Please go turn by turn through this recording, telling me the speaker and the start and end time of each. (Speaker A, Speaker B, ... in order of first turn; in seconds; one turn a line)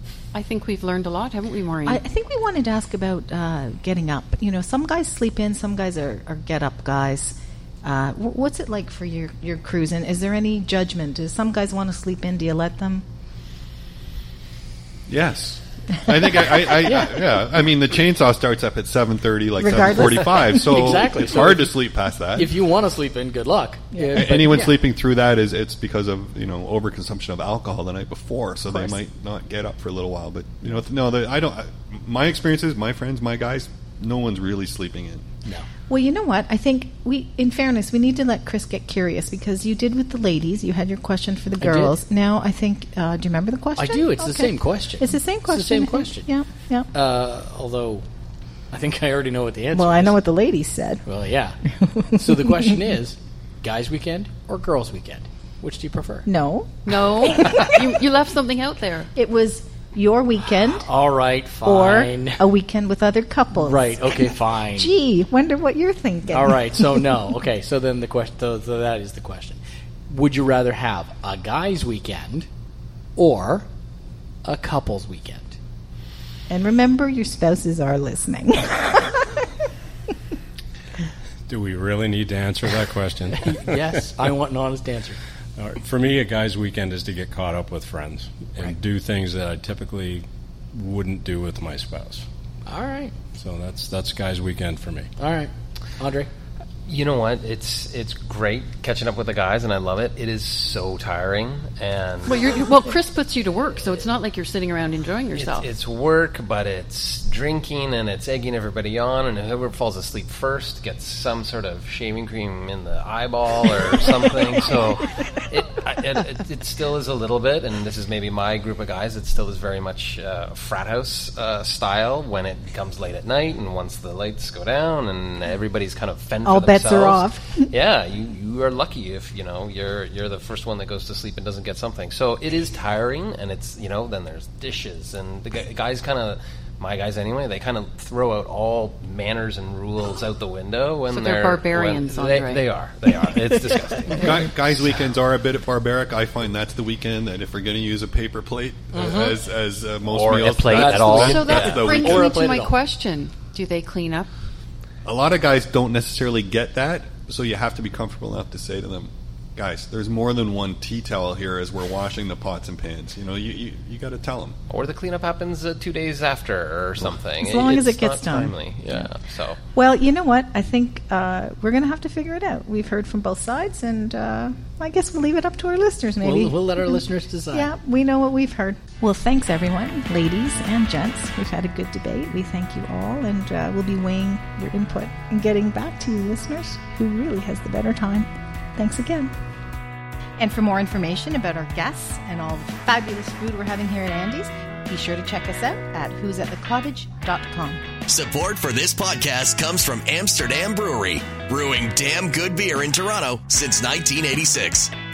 Speaker A: 0.3-2.0
Speaker B: 1.8-13.0
Speaker C: 15.1-22.6
Speaker D: 16.9-17.1
Speaker B: 19.6-20.8
Speaker D: 20.5-21.8
Speaker D: 22.3-24.9
Speaker B: 23.9-24.4
Speaker C: 24.1-35.2
Speaker B: 35.9-46.9
Speaker D: 41.6-42.0
Speaker D: 43.8-46.3
Speaker D: 46.9-48.0
Speaker D: 48.7-50.2
Speaker B: 49.7-51.0
Speaker D: 51.0-51.6
Speaker B: 51.8-52.8
Speaker D: 52.1-56.3
Speaker B: 56.2-57.8
Speaker A: 56.8-59.1
Speaker B: 59.1-60.9
Speaker D: 60.8-62.5
Speaker B: 61.6-67.3
Speaker D: 63.5-64.9
Speaker D: 66.3-72.5
Speaker D: 73.2-73.7
Speaker D: 74.4-75.5
Speaker B: 76.5-79.5
Speaker E: 81.5-84.0
Speaker D: 83.4-85.2
Speaker E: 85.6-92.2
Speaker D: 92.7-93.2
Speaker E: 93.3-95.1
Speaker D: 95.2-96.3
Speaker F: 96.8-102.6
Speaker A: 102.2-105.7
Speaker F: 105.3-145.0
Speaker B: 126.4-127.7
Speaker A: 141.1-142.6
Speaker C: 144.1-152.4
Speaker D: 148.9-149.4
Speaker F: 150.0-151.8
Speaker D: 150.6-152.8
Speaker A: 151.2-154.3
Speaker C: 155.0-164.6
Speaker F: 164.7-169.6
Speaker B: 167.4-169.1
Speaker B: 169.7-189.3
Speaker D: 176.2-177.7
Speaker B: 190.4-197.8
Speaker G: 198.1-204.9